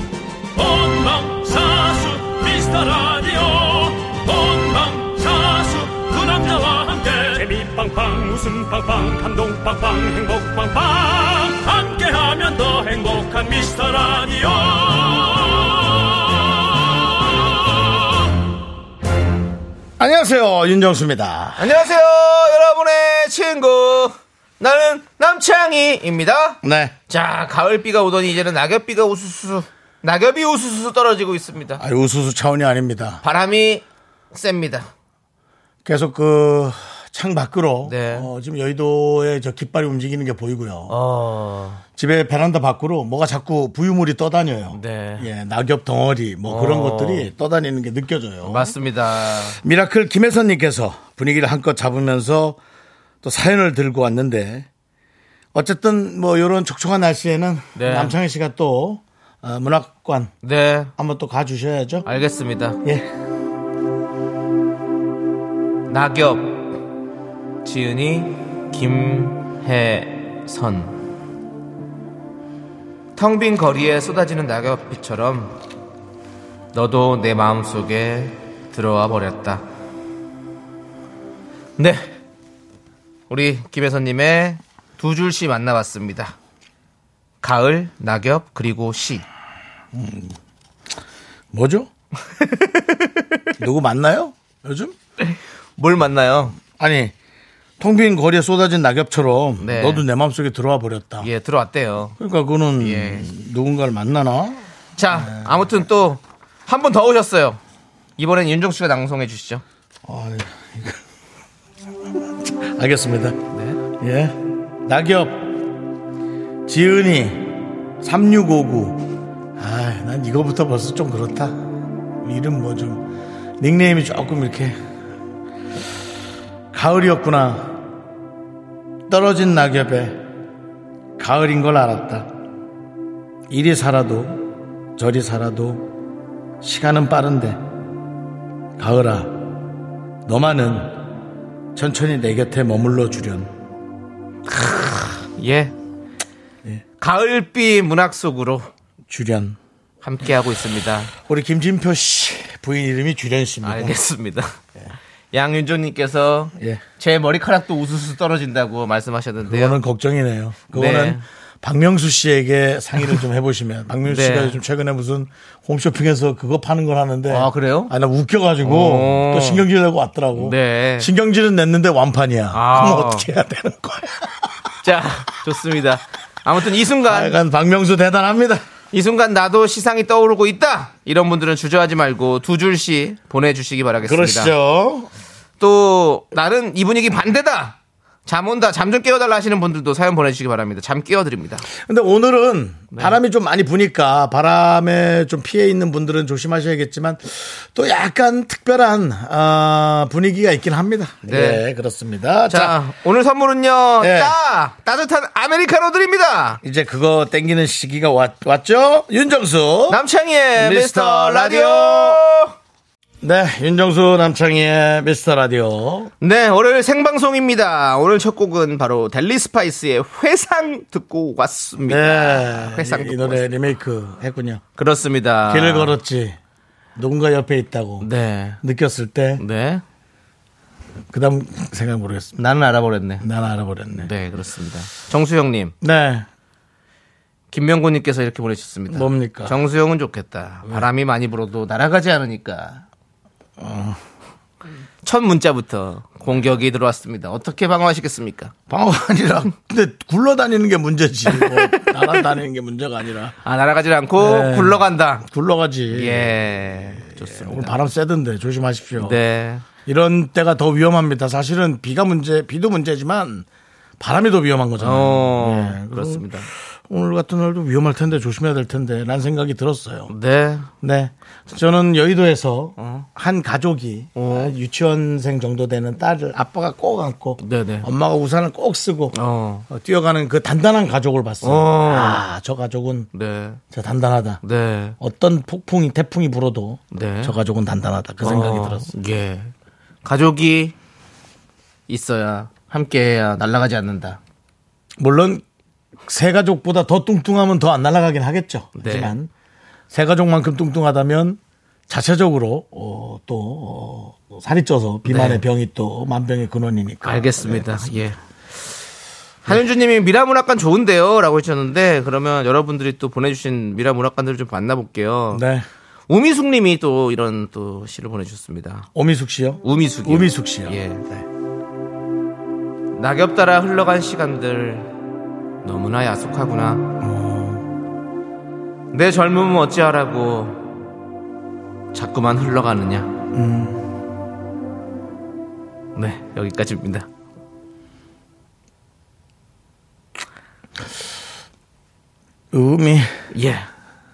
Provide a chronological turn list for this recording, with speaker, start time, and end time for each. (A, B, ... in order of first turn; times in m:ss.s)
0:00.5-0:18.3 A
0:20.0-0:21.8 B
0:21.6-0:31.8 C
0:26.6-0:26.9 B
0:31.8-0:33.2 B
0:33.2-0:34.9 C
0:35.8-0:40.9 B
0:37.8-0:38.3 C
0:40.9-0:41.8 C
0:42.0-0:48.7 B
0:44.7-0:45.3 C
0:46.5-0:47.3 C
0:48.4-0:49.6 C
0:49.6-0:52.6 B
0:53.2-0:54.7 B
0:55.5-1:00.3 B
0:57.8-0:58.2 C
1:00.4-1:00.9 C
1:01.0-1:02.0 B
1:02.0-1:02.8 C
1:05.9-1:06.8 C
1:07.6-1:11.0 C
1:13.1-1:15.6 C
1:16.7-1:19.6 C
1:21.8-1:22.2 C
1:23.3-1:26.3 C
1:27.4-1:29.2 C
1:29.9-1:30.3 B
1:31.5-1:31.9 B
1:32.3-1:33.4 C
1:33.6-1:34.9 B
1:35.2-1:36.6 C
1:36.8-1:37.1 B
1:37.8-1:41.3 B
1:39.6-1:40.0 C
1:41.2-1:42.2 C
1:42.2-1:45.7 B
1:42.8-1:43.3 C
1:45.0-1:47.6 C
1:48.2-1:49.6 C
1:50.0-1:51.0 B
1:52.2-1:53.4 B
1:53.5-1:53.8 C
1:53.9-1:55.5 B
1:56.6-2:01.6 B
2:02.2-2:03.1 B
2:03.6-2:04.8 B
2:06.7-2:07.7 B
2:09.1-2:10.2 B
2:11.2-2:12.3 B
2:13.5-2:14.4 B
2:15.0-2:15.9 B
2:16.6-2:17.6 B
2:18.8-2:19.3 B
2:20.2-2:21.0 B
2:21.7-2:23.5 B
2:24.5-2:25.7 C
2:27.0-2:28.7 C
2:29.1-2:29.6 B
2:30.0-2:31.1 C
2:31.2-2:34.0 B
2:33.6-2:34.6 C
2:35.3-2:39.8 C
2:36.6-2:36.8 B
2:39.4-2:54.5 B
2:40.7-2:41.2 C
2:44.0-2:44.6 C
2:47.3-2:47.9 C
2:48.6-2:49.6 C
2:50.4-2:51.1 C
2:52.5-2:53.3 C
2:54.8-2:57.4 C
2:57.0-2:58.6 B
2:58.9-3:04.5 C
3:04.0-3:05.1 B
3:05.6-3:11.7 C
3:11.7-3:22.8 B
3:12.9-3:13.2 C
3:21.2-3:21.6 C
3:22.5-3:26.6 C
3:24.0-3:24.4 B
3:26.6-3:30.0 B
3:29.9-3:32.5 C
3:30.6-3:32.2 B
3:33.2-3:36.1 B
3:36.2-3:43.5 C
3:41.8-3:44.6 B
3:44.8-3:45.9 C
3:45.5-3:46.4 B
3:47.0-3:48.1 B
3:48.0-3:48.6 C
3:48.6-3:49.4 B
3:49.4-3:49.8 C
3:51.1-3:52.4 B
3:52.4-3:53.2 C
3:53.2-3:54.1 B
3:53.9-3:55.7 C
3:55.8-3:56.3 B
3:57.5-4:02.8 C
3:58.9-3:59.6 B
4:03.6-4:04.0 B
4:05.0-4:08.5 C
4:08.7-4:13.4 B
4:11.3-4:11.9 C
4:13.4-4:15.2 C
4:14.2-4:16.3 B
4:15.9-4:17.8 C
4:17.0-4:19.2 B
4:19.0-4:19.6 C
4:19.8-4:23.5 B
4:24.0-4:30.1 B
4:24.8-4:26.5 C
4:30.1-4:30.7 C
4:30.8-4:39.1 B
4:32.8-4:33.1 C
4:34.2-4:34.5 C
4:37.4-4:37.9 C
4:39.1-4:39.7 C
4:39.7-4:43.1 B
4:41.4-4:42.2 C
4:43.1-4:43.6 C
4:43.7-4:44.4 B
4:44.4-4:45.0 C
4:45.0-4:48.9 B
4:46.9-4:47.3 C
4:48.2-4:49.5 C
4:50.0-4:50.8 C
4:51.9-4:54.2 C
4:55.0-4:55.4 B
4:56.1-4:59.3 B
4:58.8-4:59.1 C
4:59.9-5:07.9 B
5:05.1-5:05.4 C
5:07.0-5:08.2 C
5:09.4-5:15.4 C
5:15.3-5:15.6 B
5:16.1-5:18.9 C
5:18.9-5:21.2 B
5:19.6-5:21.0 C
5:22.9-5:24.9 C
5:25.6-5:27.0 C
5:27.0-5:27.6 B
5:28.9-5:30.6 C
5:31.9-5:33.1 C
5:33.3-5:33.8 B
5:36.0-5:37.1 C
5:42.5-5:43.2 B
5:43.3-5:43.7 C